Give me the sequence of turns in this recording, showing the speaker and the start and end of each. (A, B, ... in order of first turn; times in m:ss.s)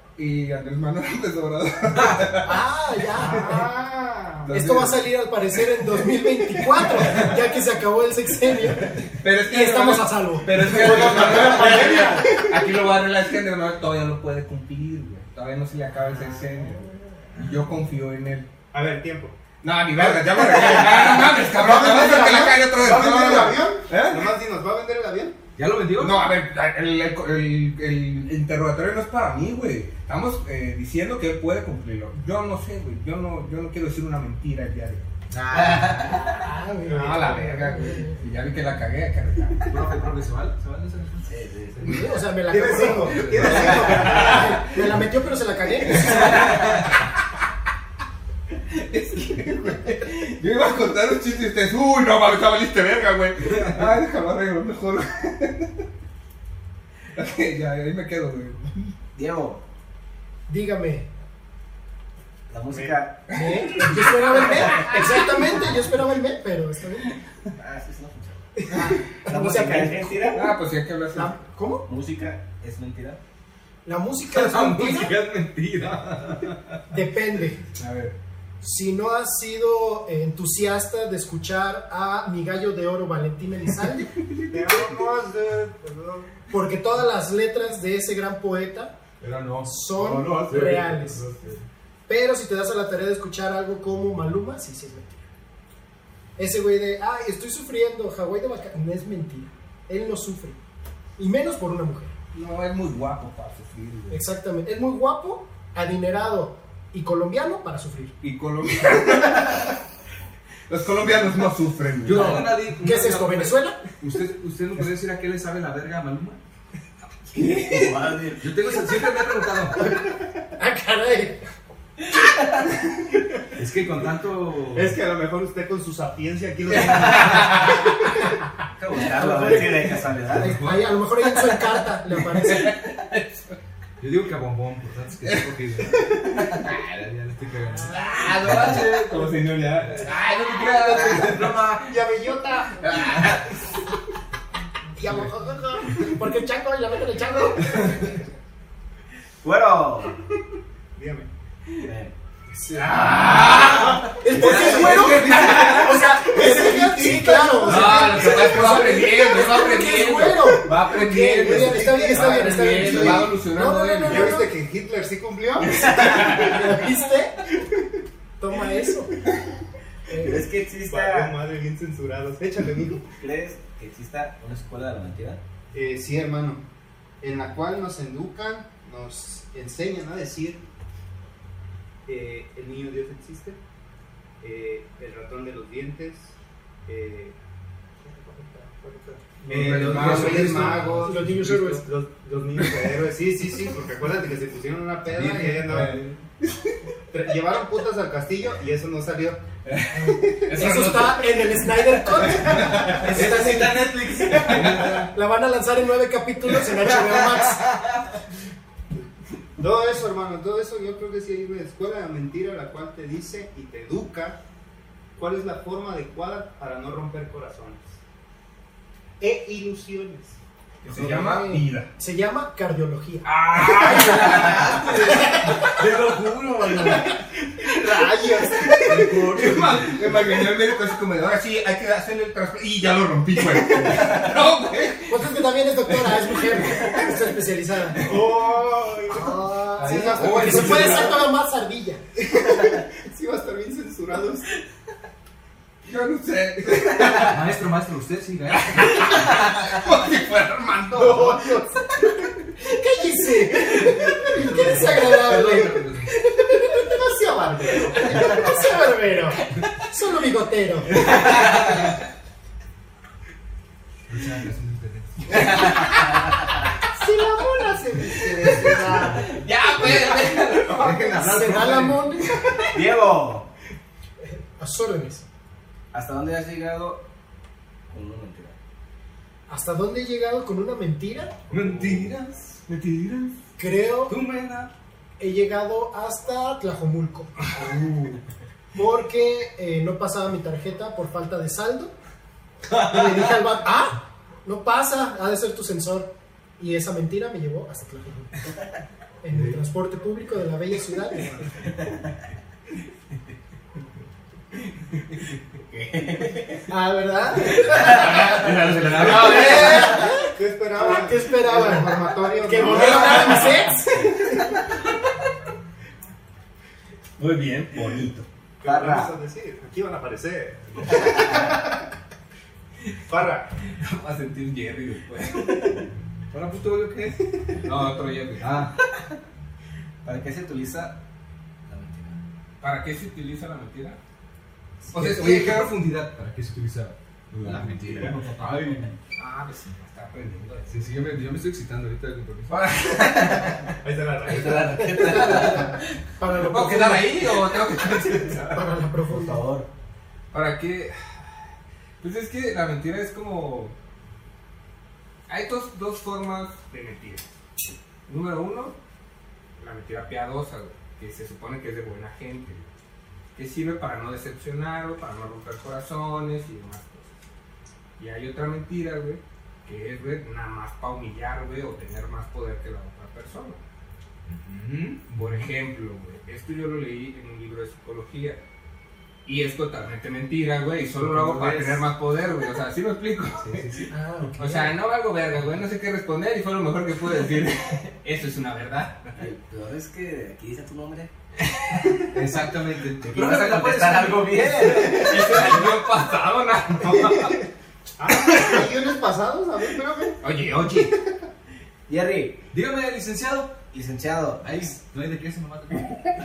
0:00.2-0:02.6 A
0:02.4-0:03.7 B
0:03.2-0:04.6 C
0:04.4-0:05.1 A
0:04.5-0:12.3 B
0:06.8-0:07.2 A
0:09.2-0:18.5 A
0:10.8-0:12.4 C
0:10.8-0:11.5 D
0:18.7-0:19.4 C
0:19.6-0:24.3 A
0:20.0-0:25.4 C
0:25.6-0:26.3 D
0:26.0-0:35.1 A
0:35.3-0:36.1 C
0:35.5-0:36.3 E
0:35.6-0:36.3 A
0:36.3-0:38.2 B
0:36.8-0:39.8 A
0:36.9-0:37.5 C
0:39.7-0:42.1 D
0:41.2-0:42.1 E
0:41.8-0:46.3 B
0:42.5-0:44.7 C
0:42.7-0:44.4 D
0:43.9-0:44.6 A
0:45.9-0:46.7 A
0:48.7-0:55.8 A
0:57.1-0:59.0 A
0:59.2-0:59.6 E
1:00.5-1:01.1 B
1:02.5-1:03.2 E
1:02.7-1:03.0 C
1:03.3-1:05.2 A
1:03.3-1:07.2 B
1:07.5-1:08.7 E
1:08.6-1:10.5 B
1:09.2-1:10.5 E
1:10.3-1:11.4 A
1:11.1-1:11.9 B
1:11.9-1:13.2 E
1:13.8-1:15.1 B
1:14.3-1:16.6 D
1:16.9-1:17.6 B
1:17.8-1:18.2 A
1:18.6-1:24.1 B
1:24.5-1:26.4 C
1:26.5-1:29.0 B
1:29.2-1:31.6 D
1:29.6-1:31.2 B
1:30.0-1:30.8 C
1:32.1-1:35.2 B
1:36.4-1:40.6 B
1:41.2-1:42.1 B
1:42.3-1:44.2 A
1:44.1-1:48.2 B
1:48.2-1:49.8 A
1:50.7-1:52.5 A
1:52.0-1:56.4 D
1:52.1-1:53.8 B
1:57.3-1:58.1 A
1:57.4-1:58.5 E
1:58.4-1:59.9 D
2:00.6-2:01.4 B
2:03.6-2:05.0 D
2:04.7-2:08.1 C
2:07.1-2:07.8 A
2:08.8-2:10.6 E
2:09.0-2:12.8 B
2:10.3-2:11.0 D
2:12.2-2:13.6 A
2:14.0-2:19.0 D
2:16.0-2:16.8 A
2:17.7-2:18.5 B
2:17.9-2:21.6 A
2:20.7-2:21.9 D
2:21.8-2:23.4 C
2:22.8-2:23.6 A
2:25.0-2:28.1 B
2:27.7-2:28.2 A
2:29.4-2:30.2 E
2:31.0-2:31.3 C
2:31.8-2:32.1 E
2:32.7-2:36.0 A
2:34.0-2:44.5 B
2:34.3-2:36.0 D
2:35.7-2:38.7 C
2:37.6-2:44.4 A
2:41.4-2:43.3 C
2:44.0-2:46.3 C
2:45.6-2:46.7 A
2:46.2-2:47.4 B
2:48.4-2:49.2 B
2:50.1-2:50.5 B
2:50.2-2:51.4 E
2:50.9-2:53.1 C
2:53.1-2:55.4 E
2:55.7-2:56.6 C
2:57.2-3:00.6 C
3:02.1-3:03.6 C
3:04.4-3:06.4 C
3:06.9-3:07.4 C
3:08.0-3:16.0 C
3:09.5-3:11.2 A
3:09.5-3:11.1 D
3:11.0-3:11.8 B
3:12.6-3:12.9 A
3:15.1-3:16.2 D
3:15.7-3:16.8 A
3:17.1-3:19.4 C
3:19.6-3:23.2 A
3:19.9-3:24.3 B
3:22.9-3:25.1 D
3:24.4-3:25.0 A
3:24.9-3:27.7 B
3:27.3-3:27.7 D
3:29.6-3:34.4 C
3:35.2-3:38.0 C
3:39.2-3:40.4 C
3:40.8-3:41.9 A
3:40.9-3:45.6 B
3:43.2-3:45.3 A
3:43.7-3:47.1 D
3:46.9-3:49.5 C
3:48.8-3:50.0 D
3:49.3-3:55.4 A
3:55.1-3:58.1 B
3:55.9-3:57.1 A
3:58.0-4:01.3 C
3:59.1-4:02.0 B
3:59.8-4:01.2 D
4:02.2-4:04.5 C
4:05.8-4:07.4 A
4:07.1-4:09.1 D
4:08.5-4:11.6 A
4:10.9-4:12.0 C
4:12.6-4:15.8 B
4:14.2-4:16.2 D
4:16.4-4:18.7 C
4:16.4-4:17.0 B
4:18.1-4:21.1 B
4:21.2-4:21.6 D
4:24.1-4:25.8 D
4:25.5-4:25.7 A
4:26.9-4:29.4 C
4:29.2-4:31.0 A
4:30.7-4:32.1 D
4:30.8-4:32.4 B
4:32.7-4:33.5 E
4:34.2-4:35.2 B
4:35.9-4:37.0 E
4:37.9-4:38.6 E
4:39.5-4:41.4 B
4:41.5-4:43.3 D
4:43.6-4:44.2 B
4:44.1-4:44.7 D
4:45.2-4:47.5 B
4:48.8-4:51.9 B
4:52.8-4:58.4 B
4:59.2-5:01.5 B
4:59.3-4:59.6 D
5:05.7-5:06.6 E
5:06.7-5:08.2 B
5:07.7-5:08.3 E
5:07.9-5:10.1 A
5:08.3-5:09.8 D
5:09.1-5:14.2 B
5:09.2-5:13.7 C
5:12.6-5:13.6 A
5:17.2-5:18.3 A
5:18.6-5:21.8 C
5:18.6-5:19.2 E
5:21.1-5:21.5 E
5:23.0-5:23.5 C
5:23.8-5:25.8 A
5:26.3-5:27.6 D
5:27.6-5:28.5 A
5:28.4-5:28.8 D
5:30.0-5:31.0 E
5:31.7-5:32.2 E
5:32.6-5:34.0 A
5:34.9-5:35.7 A
5:34.9-5:39.0 D
5:37.9-5:38.2 C
5:39.2-5:41.0 A
5:40.7-5:42.6 D
5:42.5-5:43.7 A
5:43.8-5:45.0 C
5:44.3-5:45.8 E
5:44.8-5:47.3 B
5:46.4-5:48.6 A
5:48.5-5:49.5 B
5:49.0-5:49.7 E
5:50.3-5:51.2 A
5:52.0-5:53.8 A
5:55.3-5:57.3 A
5:58.1-5:58.8 A
5:59.6-6:02.6 A
6:03.4-6:07.1 A
6:08.0-6:13.6 A
6:14.3-6:15.3 D
6:15.1-6:18.4 A
6:19.2-6:23.7 A
6:21.0-6:21.8 D
6:23.4-6:23.9 D
6:23.9-6:24.8 B
6:24.4-6:29.3 A
6:29.2-6:31.1 E
6:32.1-6:35.5 D
6:33.0-6:35.5 E
6:34.7-6:37.4 A
6:36.9-6:37.3 C
6:38.0-6:41.2 C
6:38.2-6:38.6 A
6:40.2-6:40.9 A
6:41.9-6:42.4 E
6:42.5-6:43.6 D
6:43.7-6:44.7 E
6:44.5-6:46.0 D